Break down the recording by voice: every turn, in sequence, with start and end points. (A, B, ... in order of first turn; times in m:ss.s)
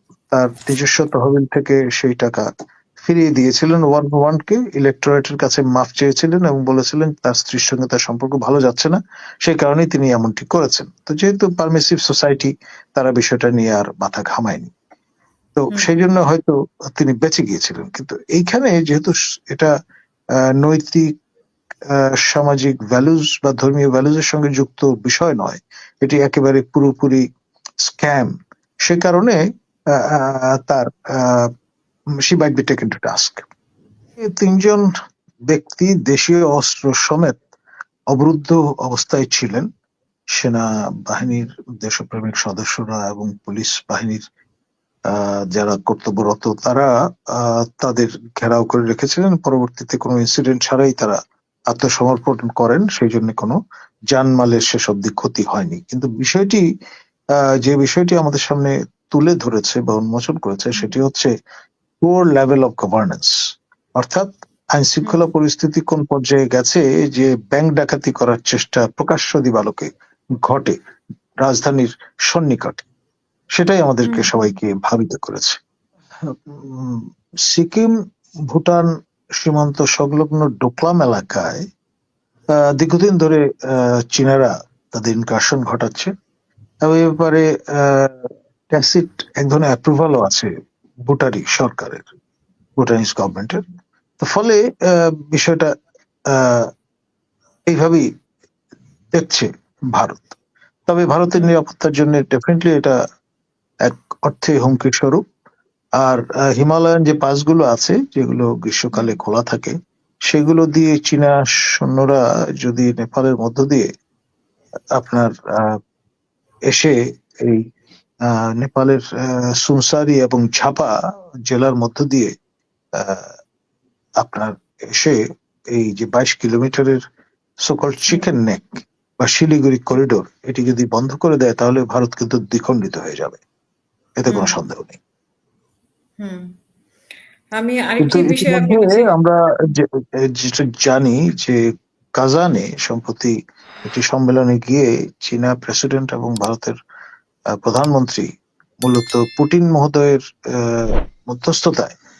0:00.3-0:02.5 A
0:03.0-0:14.7 A
0:15.6-0:19.7 A
0:20.6-0:21.1 A
0:21.9-0:27.2 A
0:27.8-0:29.4 A
0:29.9-0:31.5 A
0:32.2-0:33.4 A
0:34.2-0:34.9 A
0:35.5-0:37.4 A
0:38.1-0:39.7 A
0:40.3-0:44.2 A
0:45.1-0:51.2 A
0:51.7-0:53.6 A
0:54.1-0:56.6 A
0:57.4-1:01.3 A
1:02.0-1:03.3 A
1:04.0-1:09.9 A
1:10.4-1:10.8 A
1:11.4-1:12.8 A
1:13.6-1:15.6 A
1:14.1-1:14.5 B
1:16.3-1:17.9 A
1:18.5-1:18.9 A
1:19.4-1:21.6 A
1:22.6-1:26.1 A
1:26.8-1:30.5 A
1:31.1-1:32.0 A
1:32.8-1:33.6 A
1:34.2-1:35.7 A
1:36.3-1:36.7 A
1:37.7-1:38.1 A
1:39.1-1:40.3 A
1:40.9-1:43.0 A
1:41.3-1:41.6 B
1:43.8-1:45.2 A
1:46.0-1:49.7 A
1:50.3-1:53.9 A
1:55.0-1:55.8 A
1:56.7-1:57.6 A
1:58.3-2:00.9 A
2:01.5-2:02.3 A
2:03.0-2:03.3 A
2:04.2-2:05.2 A
2:05.7-2:07.0 A
2:07.6-2:08.7 A
2:09.2-2:13.4 A
2:14.2-2:15.0 A
2:14.3-2:14.6 B
2:16.2-2:16.6 B
2:17.6-2:19.1 B
2:18.0-2:21.6 A
2:22.2-2:23.3 A
2:23.9-2:26.7 A
2:27.6-2:28.3 A
2:28.8-2:32.0 A